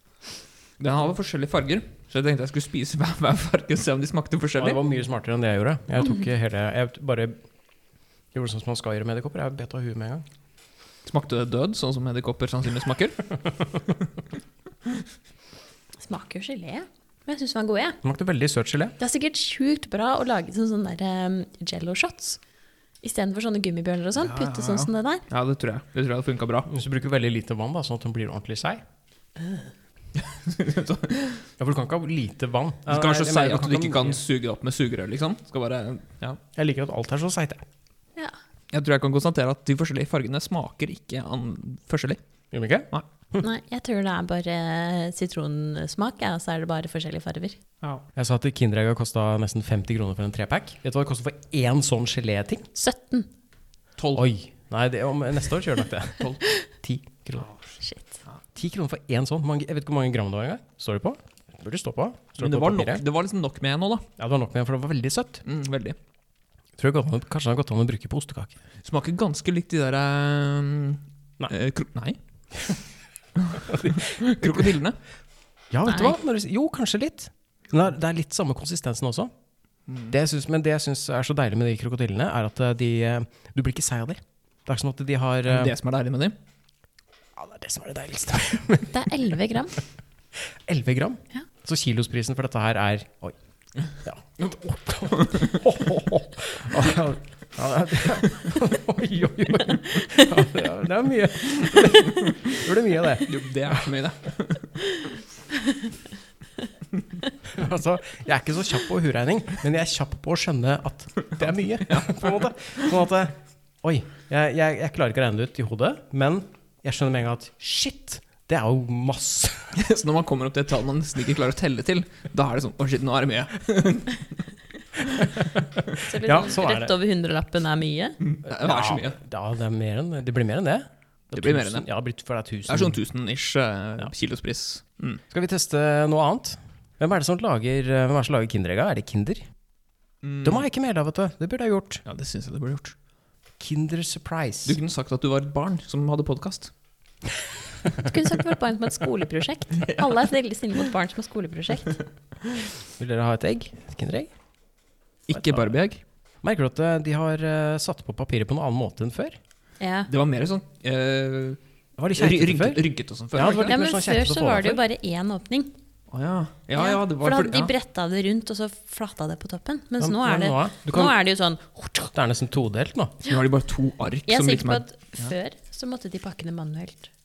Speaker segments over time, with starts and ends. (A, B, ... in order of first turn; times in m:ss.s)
0:00.8-0:04.8 A
0:04.6-0:07.4 B
0:08.3-0:10.3 B
0:11.1-0:13.3 A
0:16.0-0:18.0 C
0:18.0-0:19.0 B
0:19.0-0:22.4 C
0:23.0-0:25.2 C
0:24.2-0:26.7 A
0:26.7-0:28.8 B
0:30.2-0:31.4 A
0:31.6-0:34.2 B
0:32.9-0:36.4 A
0:36.6-0:37.6 B
0:38.7-0:42.2 A
0:42.5-0:43.4 B
0:43.4-0:47.6 C
0:48.1-0:52.7 B
0:52.8-0:53.3 C
0:54.0-0:54.2 A
0:54.1-0:57.5 B
0:57.4-0:57.7 A
0:57.8-0:58.2 C
0:58.6-1:03.0 B
1:02.4-1:04.1 A
1:04.2-1:05.4 B
1:05.4-1:06.0 A
1:06.8-1:08.5 B
1:08.8-1:12.2 A
1:13.4-1:15.0 A
1:13.7-1:14.7 B
1:15.7-1:19.3 B
1:15.9-1:16.2 C
1:19.9-1:20.1 A
1:20.1-1:25.7 B
1:25.4-1:26.4 A
1:27.4-1:28.9 B
1:28.9-1:29.8 C
1:30.4-1:33.4 B
1:34.0-1:43.9 B
1:35.1-1:35.6 A
1:41.7-1:42.4 A
1:43.2-1:44.7 A
1:47.4-1:59.8 B
1:51.2-1:52.9 A
1:59.8-2:05.3 A
2:05.4-2:06.9 B
2:06.0-2:08.2 C
2:08.2-2:09.2 A
2:08.5-2:13.0 B
2:11.3-2:11.9 A
2:12.6-2:15.2 A
2:15.3-2:19.4 B
2:20.2-2:20.6 A
2:20.4-2:22.0 B
2:22.1-2:22.9 A
2:23.6-2:24.8 B
2:24.6-2:26.7 A
2:28.0-2:31.9 C
2:29.8-2:30.1 A
2:33.0-2:34.3 B
2:35.3-2:36.0 A
2:35.3-2:35.6 B
2:36.4-2:39.4 B
2:39.8-2:40.1 C
2:40.1-2:41.6 A
2:42.0-2:44.8 B
2:42.1-2:43.8 A
2:43.7-2:45.7 C
2:46.1-2:47.7 A
2:46.8-2:52.1 C
2:50.0-2:51.2 B
2:52.1-2:53.2 B
2:53.2-2:55.3 A
2:54.3-2:57.1 C